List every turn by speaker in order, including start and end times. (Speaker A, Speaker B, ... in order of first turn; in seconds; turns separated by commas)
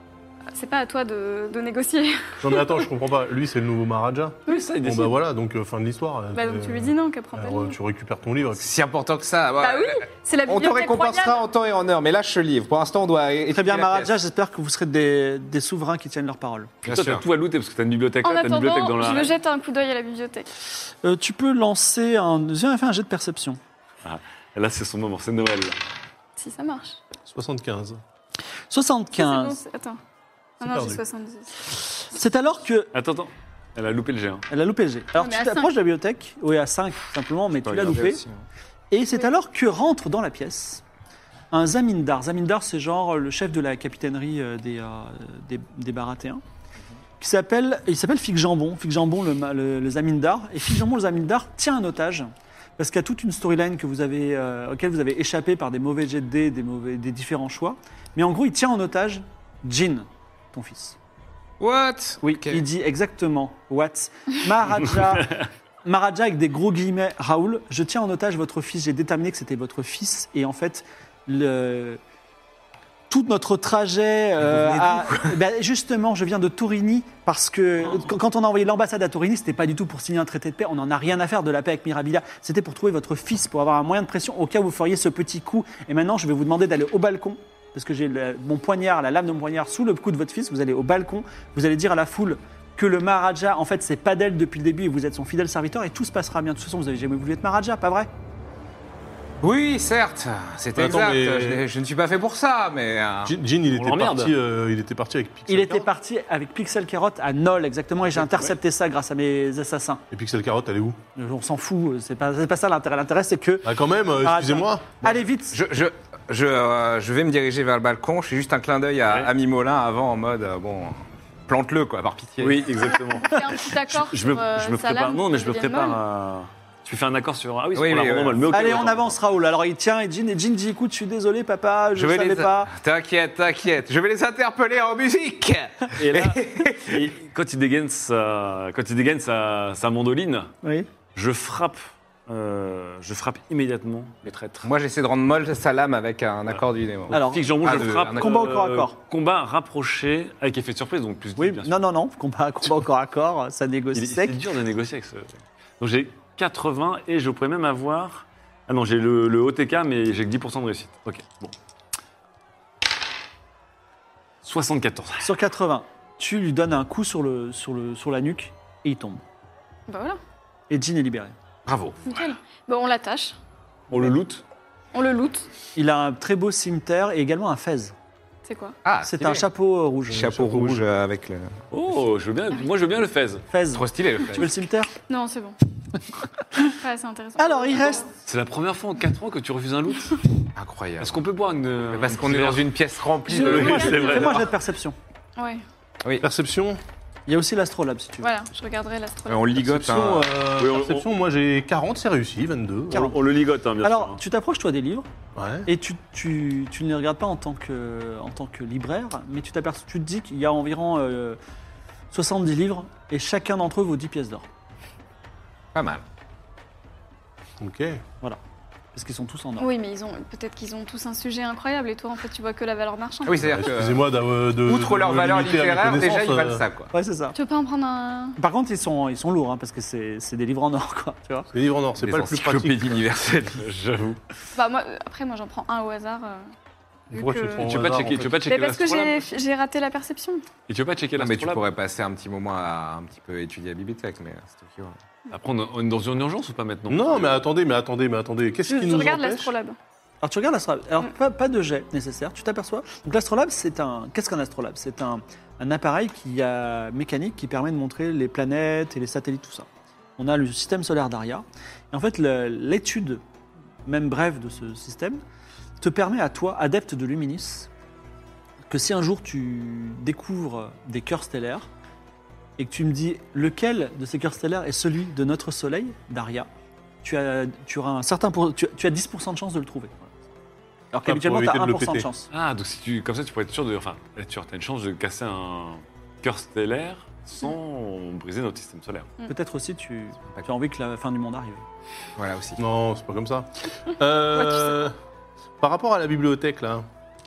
Speaker A: 0.5-2.8, Speaker B: 2.4-8.7, Speaker C: 4.5-5.2, Speaker A: 6.3-7.8, Speaker D: 8.6-14.1, Speaker A: 9.6-11.4, Speaker E: 13.5-16.8, Speaker D: 16.8-17.2, Speaker C: 16.8-19.3, Speaker A: 18.2-20.5, Speaker E: 21.0-23.6, Speaker C: 24.0-25.8, Speaker A: 26.4-27.0, Speaker B: 27.3-28.0, Speaker E: 28.7-29.6, Speaker A: 29.1-30.0, Speaker A: 30.6-31.5, Speaker B: 30.6-31.0, Speaker E: 32.1-32.9, Speaker C: 32.9-34.5, Speaker E: 34.5-38.2, Speaker A: 35.2-35.7, Speaker D: 37.6-38.4, Speaker E: 38.9-40.8, Speaker E: 41.5-46.4, Speaker E: 47.2-61.0, Speaker D: 61.6-62.6, Speaker E: 62.2-72.0, Speaker E: 73.1-98.1, Speaker D: 74.4-75.3, Speaker D: 99.4-103.3, Speaker B: 100.8-101.7, Speaker B: 103.2-105.9, Speaker C: 103.6-104.4, Speaker E: 105.5-110.0, Speaker C: 108.3-108.5, Speaker B: 110.1-111.0, Speaker E: 111.2-115.6, Speaker B: 113.6-115.0, Speaker D: 115.5-122.7, Speaker C: 122.4-129.2, Speaker A: 123.2-126.0, Speaker E: 123.3-123.5, Speaker D: 127.7-128.8, Speaker E: 128.5-132.7, Speaker D: 131.9-137.1, Speaker C: 136.0-140.5, Speaker E: 140.6-140.9, Speaker C: 141.1-144.7, Speaker D: 144.6-148.5, Speaker C: 147.1-151.7, Speaker E: 147.1-149.0, Speaker E: 151.4-154.4, Speaker C: 153.9-161.5, Speaker C: 164.4-165.3, Speaker E: 165.2-169.2, Speaker A: 169.9-170.2, Speaker E: 170.7-171.3, Speaker D: 171.7-172.2, Speaker A: 172.1-173.4, Speaker E: 173.9-174.2, Speaker C: 173.9-174.4, Speaker A: 174.9-175.5, Speaker E: 175.7-177.9, Speaker A: 178.4-178.8, Speaker D: 178.8-179.5, Speaker E: 179.0-180.3, Speaker D: 180.1-181.5, Speaker B: 180.1-180.8, Speaker C: 181.7-183.4, Speaker E: 183.5-184.9, Speaker D: 183.7-184.5, Speaker A: 185.1-185.6, Speaker A: 186.7-188.1, Speaker E: 187.4-188.1, Speaker C: 188.2-190.2, Speaker D: 190.6-191.2, Speaker C: 191.0-192.7, Speaker D: 191.9-194.4, Speaker E: 193.3-194.9, Speaker C: 193.3-194.5, Speaker A: 193.4-194.2, Speaker A: 195.4-195.6, Speaker B: 196.2-196.8, Speaker E: 197.3-198.3, Speaker A: 198.2-199.6, Speaker D: 199.3-200.4, Speaker B: 199.6-203.1, Speaker C: 200.5-201.1, Speaker C: 202.9-204.2, Speaker E: 203.8-205.1, Speaker B: 205.4-205.7, Speaker E: 205.7-211.4, Speaker E: 212.1-214.4, Speaker D: 215.7-216.0, Speaker B: 217.6-218.0, Speaker E: 218.9-219.7, Speaker A: 219.6-223.4, Speaker D: 223.2-226.9, Speaker B: 223.4-226.6, Speaker E: 226.9-227.3, Speaker A: 227.3-228.4, Speaker E: 228.4-231.5, Speaker B: 231.5-233.1, Speaker D: 232.0-233.7, Speaker C: 233.6-234.2, Speaker A: 234.6-236.5, Speaker A: 237.1-237.7, Speaker B: 237.1-238.4, Speaker C: 237.6-239.2, Speaker A: 238.4-240.4, Speaker C: 240.7-241.7, Speaker D: 241.2-245.0, Speaker C: 245.3-247.4, Speaker B: 246.9-249.5, Speaker A: 248.7-249.8, Speaker E: 250.2-259.7, Speaker E: 260.2-263.2, Speaker E: 263.8-265.2, Speaker E: 265.8-267.7, Speaker E: 268.7-271.7, Speaker E: 272.6-276.5, Speaker E: 277.0-280.1, Speaker E: 280.9-282.3, Speaker B: 281.1-282.1, Speaker C: 282.3-289.1, Speaker E: 289.3-291.6, Speaker D: 292.2-292.6, Speaker B: 292.6-294.9, Speaker B: 295.6-296.8